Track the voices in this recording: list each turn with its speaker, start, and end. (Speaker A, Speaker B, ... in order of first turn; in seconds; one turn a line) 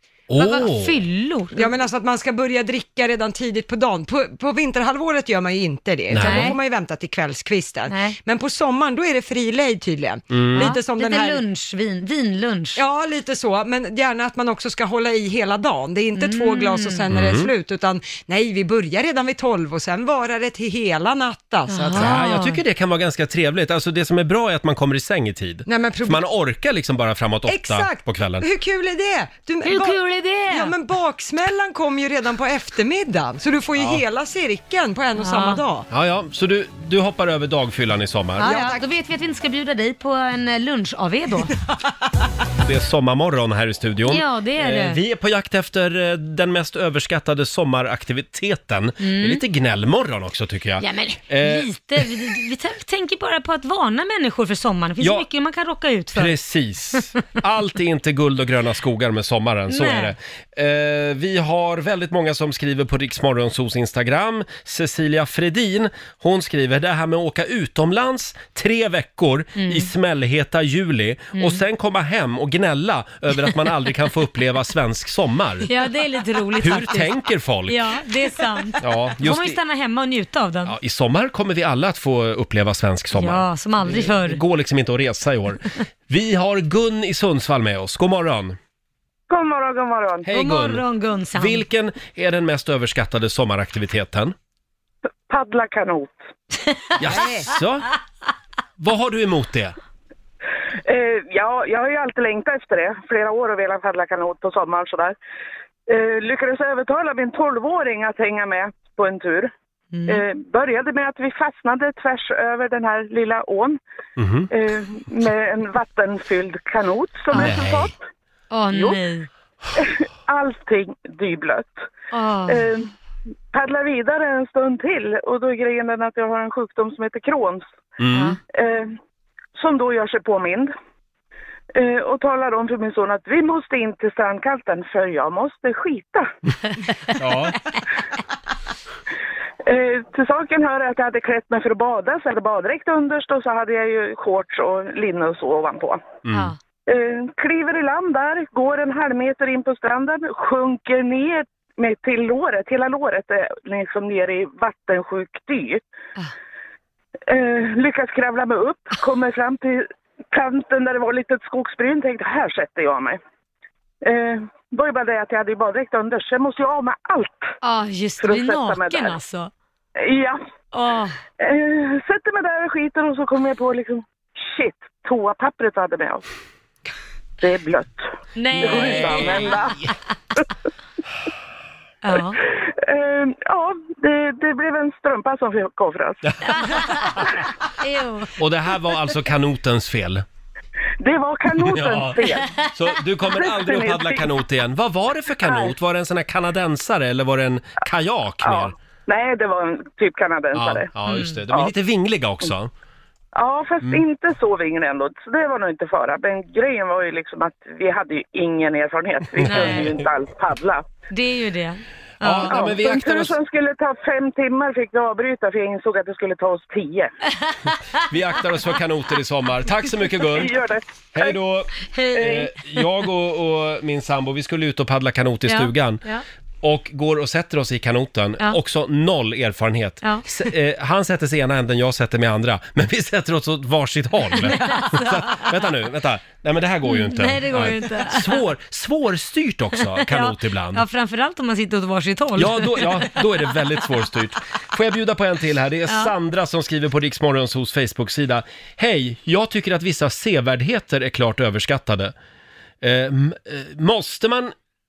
Speaker A: 0.3-1.0
Speaker B: 0.4-1.8
Speaker C: 1.5-11.4
Speaker A: 6.1-6.5
Speaker B: 6.2-6.6
Speaker B: 7.9-8.2
Speaker A: 10.3-10.8
Speaker B: 10.6-12.8
Speaker C: 12.8-22.2
Speaker B: 16.1-17.0
Speaker A: 17.1-17.5
Speaker B: 21.7-22.6
Speaker A: 21.9-28.4
Speaker C: 25.7-26.2
Speaker C: 27.5-35.9
Speaker B: 29.6-30.7
Speaker A: 33.8-34.0
Speaker B: 35.2-35.6
Speaker A: 35.9-38.5
Speaker B: 38.4-41.5
Speaker C: 38.4-38.8
Speaker A: 42.6-52.1
Speaker B: 44.1-45.0
Speaker B: 49.0-49.4
Speaker B: 50.8-56.3
Speaker A: 55.0-55.3
Speaker A: 56.1-75.7
Speaker B: 59.7-60.1
Speaker B: 69.6-69.9
Speaker B: 71.3-71.6
Speaker B: 75.6-80.8
Speaker A: 76.6-77.8
Speaker A: 78.8-79.6
Speaker A: 80.7-88.6
Speaker B: 83.1-84.4
Speaker D: 89.3-90.3
Speaker A: 90.3-90.8
Speaker B: 90.3-91.6
Speaker A: 91.4-94.3
Speaker D: 95.3-96.2
Speaker A: 97.0-97.9
Speaker C: 97.1-97.5
Speaker A: 98.8-99.8
Speaker D: 100.8-105.2
Speaker D: 105.9-109.5
Speaker B: 109.9-110.2
Speaker D: 110.1-113.8
Speaker A: 114.2-114.5
Speaker D: 114.5-118.0
Speaker B: 117.3-117.7
Speaker A: 117.3-117.9
Speaker B: 118.5-119.3
Speaker D: 118.7-119.0
Speaker D: 119.8-121.9
Speaker B: 122.1-122.7
Speaker D: 122.5-122.9
Speaker D: 123.5-127.7
Speaker A: 128.0-128.4
Speaker B: 128.1-128.4
Speaker D: 128.5-129.0
Speaker D: 129.6-130.7
Speaker D: 131.8-136.3
Speaker A: 137.2-137.6
Speaker D: 139.7-146.0
Speaker A: 146.2-146.5
Speaker B: 146.3-146.6
Speaker D: 146.9-155.8
Speaker D: 157.3-163.2
Speaker D: 164.0-167.5
Speaker B: 167.6-169.5
Speaker D: 168.2-169.2
Speaker D: 170.0-170.4
Speaker B: 170.7-171.2
Speaker D: 171.4-176.2
Speaker D: 177.4-179.8
Speaker B: 178.4-179.6
Speaker A: 178.6-179.6
Speaker B: 182.0-182.4
Speaker D: 182.5-186.3
Speaker A: 186.3-187.3
Speaker B: 186.6-187.2
Speaker B: 187.8-188.3
Speaker A: 188.4-190.2
Speaker D: 191.0-192.5
Speaker A: 191.6-198.7
Speaker D: 193.3-194.2
Speaker D: 195.4-195.7
Speaker D: 198.4-200.9
Speaker A: 200.5-202.7
Speaker B: 201.1-201.4
Speaker D: 203.3-210.9
Speaker B: 209.4-210.0
Speaker A: 209.4-209.9
Speaker B: 211.1-212.8
Speaker A: 212.2-213.3
Speaker D: 212.5-217.1
Speaker A: 218.0-220.5
Speaker D: 220.3-221.3
Speaker A: 221.1-226.0
Speaker B: 221.8-222.5
Speaker D: 222.2-222.4
Speaker B: 225.5-226.2
Speaker A: 226.6-240.8
Speaker B: 234.4-235.5
Speaker B: 236.8-238.4
Speaker B: 239.9-243.2
Speaker A: 242.4-252.1
Speaker B: 245.9-246.1
Speaker A: 252.8-254.5